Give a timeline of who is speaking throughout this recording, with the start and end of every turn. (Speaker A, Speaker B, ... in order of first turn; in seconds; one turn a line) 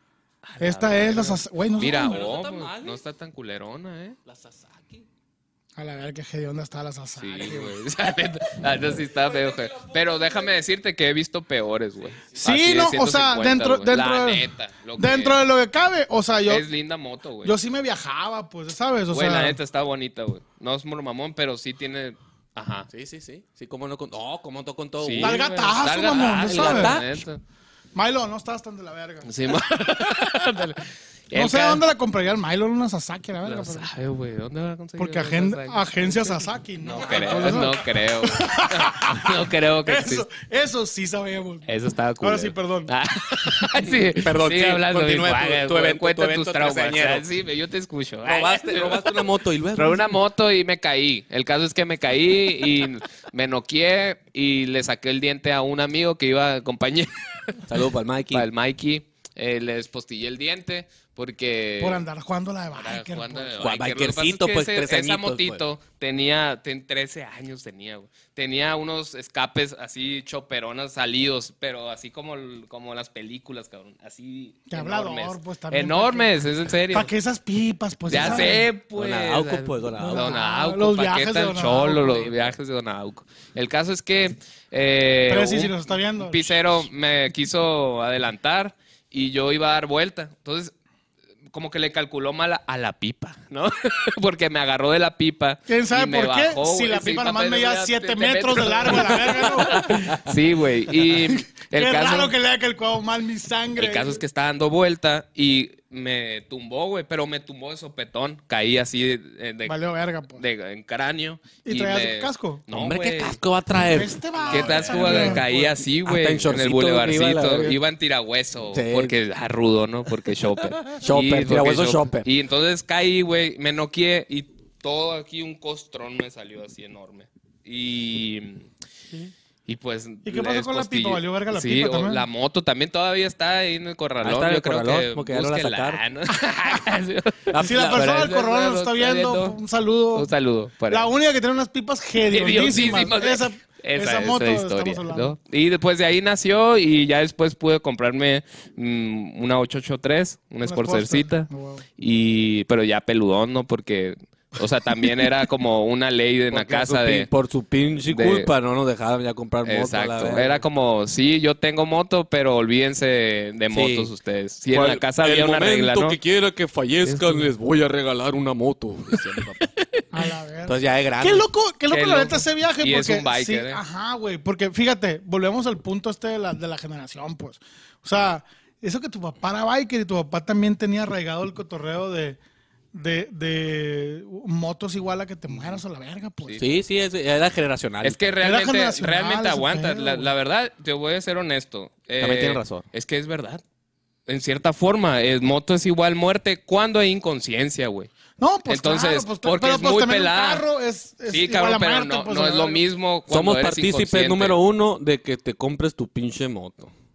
Speaker A: 0.4-4.2
Speaker B: 0.6-2.1
Speaker C: 1.8-3.0
Speaker C: 4.3-5.0
Speaker B: 5.8-7.7
Speaker A: 7.2-15.4
Speaker C: 9.1-10.4
Speaker B: 12.4-16.6
Speaker A: 16.5-17.6
Speaker B: 17.4-19.6
Speaker A: 19.1-22.9
Speaker C: 22.9-25.4
Speaker A: 25.0-27.4
Speaker B: 25.2-27.0
Speaker C: 26.4-27.2
Speaker B: 27.9-29.6
Speaker A: 29.2-31.8
Speaker B: 31.3-33.9
Speaker A: 33.4-40.3
Speaker B: 35.0-41.7
Speaker C: 37.0-37.8
Speaker A: 41.6-49.2
Speaker B: 42.2-42.9
Speaker C: 44.1-47.3
Speaker C: 48.2-50.2
Speaker A: 49.8-57.6
Speaker C: 57.7-58.5
Speaker A: 58.3-62.0
Speaker B: 61.8-63.6
Speaker A: 62.7-77.1
Speaker C: 63.6-65.6
Speaker B: 74.7-76.3
Speaker B: 76.9-78.7
Speaker A: 78.1-90.7
Speaker C: 78.1-80.3
Speaker B: 80.0-82.3
Speaker B: 85.3-86.5
Speaker A: 91.5-102.3
Speaker B: 95.7-99.9
Speaker B: 101.2-104.2
Speaker A: 103.8-109.8
Speaker B: 109.7-110.4
Speaker A: 110.4-113.4
Speaker B: 111.6-112.6
Speaker C: 112.7-117.8
Speaker B: 113.9-115.7
Speaker A: 114.5-128.7
Speaker C: 118.7-119.2
Speaker C: 120.8-122.3
Speaker A: 129.7-139.6
Speaker B: 130.2-132.2
Speaker C: 134.2-136.0
Speaker C: 137.5-138.1
Speaker B: 137.6-140.3
Speaker A: 140.1-141.1
Speaker B: 140.9-145.4
Speaker A: 142.3-157.3
Speaker B: 150.6-151.8
Speaker C: 156.5-160.6
Speaker A: 158.1-158.5
Speaker A: 159.6-166.2
Speaker C: 163.7-164.1
Speaker C: 164.7-169.7
Speaker A: 167.1-167.5
Speaker B: 170.1-182.4
Speaker C: 170.7-171.5
Speaker A: 171.9-173.8
Speaker B: 182.9-186.6
Speaker C: 186.6-188.2
Speaker A: 188.0-193.6
Speaker B: 188.4-190.3
Speaker C: 192.2-192.8
Speaker A: 194.3-198.1
Speaker B: 198.4-202.8
Speaker A: 198.7-200.7
Speaker A: 201.3-204.6
Speaker C: 203.3-206.9